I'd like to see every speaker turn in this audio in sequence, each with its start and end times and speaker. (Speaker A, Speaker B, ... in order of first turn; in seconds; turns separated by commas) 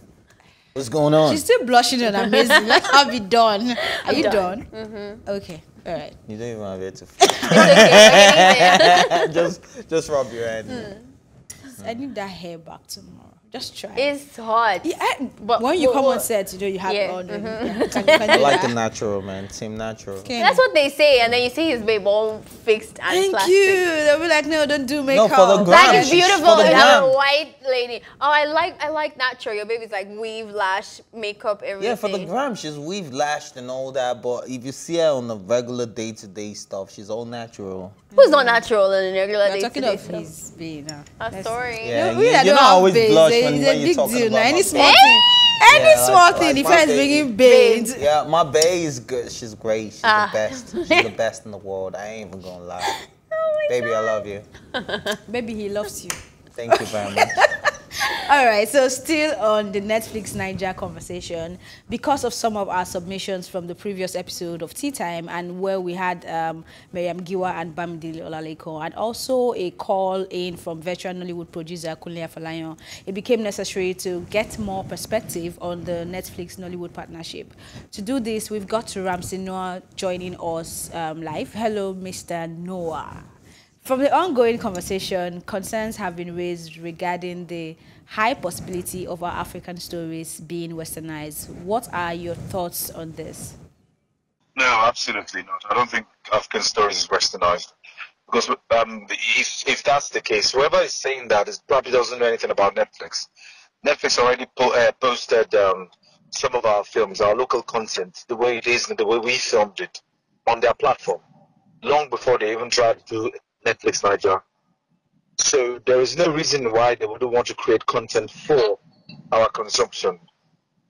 Speaker A: 0.7-1.4, Speaker B: 1.2-4.7, Speaker C: 2.3-2.8, Speaker C: 4.0-5.2, Speaker B: 5.2-6.2, Speaker A: 6.3-10.9, Speaker B: 7.2-8.2, Speaker C: 7.5-9.3, Speaker C: 10.7-11.0, Speaker B: 11.7-14.1, Speaker C: 13.9-16.2, Speaker B: 14.8-18.7, Speaker C: 16.8-18.7, Speaker A: 18.3-20.3, Speaker B: 20.2-20.6, Speaker C: 20.4-23.8, Speaker B: 23.1-27.0, Speaker A: 25.1-27.1, Speaker C: 25.6-32.3, Speaker A: 31.8-38.0, Speaker B: 38.1-38.6, Speaker C: 38.1-40.3, Speaker B: 39.4-48.0, Speaker C: 41.2-42.0, Speaker A: 41.8-47.3, Speaker C: 44.7-45.2, Speaker C: 47.4-47.9, Speaker A: 47.9-52.9, Speaker C: 50.0-51.1, Speaker C: 52.9-54.2, Speaker A: 53.7-54.5, Speaker C: 54.7-55.2, Speaker B: 55.3-56.2, Speaker A: 56.5-57.4, Speaker B: 56.7-83.2, Speaker B: 83.8-93.5, Speaker D: 94.5-97.7, Speaker D: 98.3-103.3, Speaker D: 103.8-111.2, Speaker D: 111.8-114.4, Speaker D: 115.4-118.8, Speaker D: 119.3-120.2